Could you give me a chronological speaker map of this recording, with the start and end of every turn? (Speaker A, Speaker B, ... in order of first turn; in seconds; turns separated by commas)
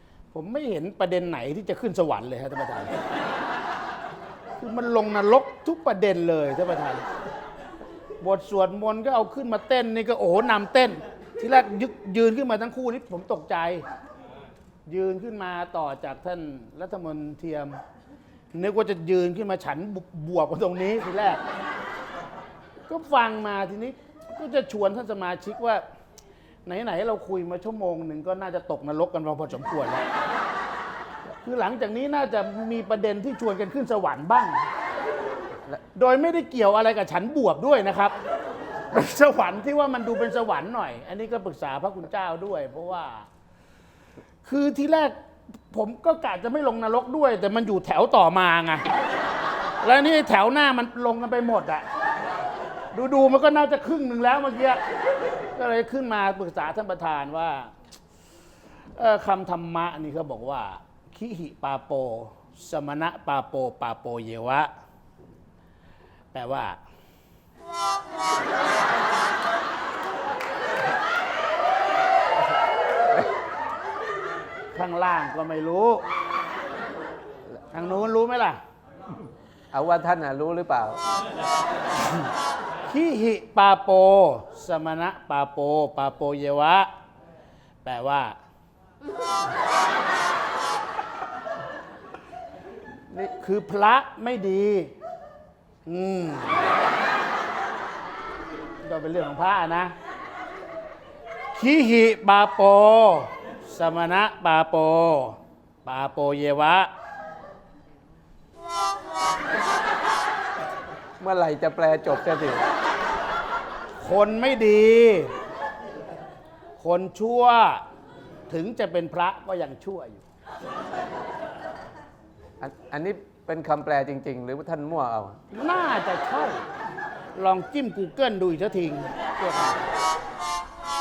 Speaker A: 0.3-2.9, Speaker A: 4.6-7.0, Speaker A: 8.2-13.8, Speaker A: 14.8-17.8, Speaker A: 18.5-21.4, Speaker A: 22.9-25.8, Speaker A: 26.6-30.0, Speaker A: 31.4-34.7, Speaker A: 35.9-38.1, Speaker A: 38.9-43.3, Speaker A: 44.4-45.1, Speaker A: 45.7-48.9, Speaker A: 49.8-51.8, Speaker A: 52.9-54.8, Speaker A: 55.5-57.7, Speaker A: 59.0-64.7, Speaker A: 66.3-66.8, Speaker A: 74.7-76.0, Speaker A: 77.7-78.6, Speaker B: 79.7-81.0, Speaker A: 82.8-86.9, Speaker A: 87.8-88.4, Speaker A: 93.1-94.9, Speaker A: 95.8-96.7, Speaker A: 98.8-99.9, Speaker A: 101.5-106.9, Speaker B: 111.2-112.7, Speaker A: 114.0-115.3, Speaker A: 116.8-117.8, Speaker A: 118.5-120.2, Speaker B: 122.6-125.4, Speaker A: 125.5-126.6, Speaker A: 127.3-129.9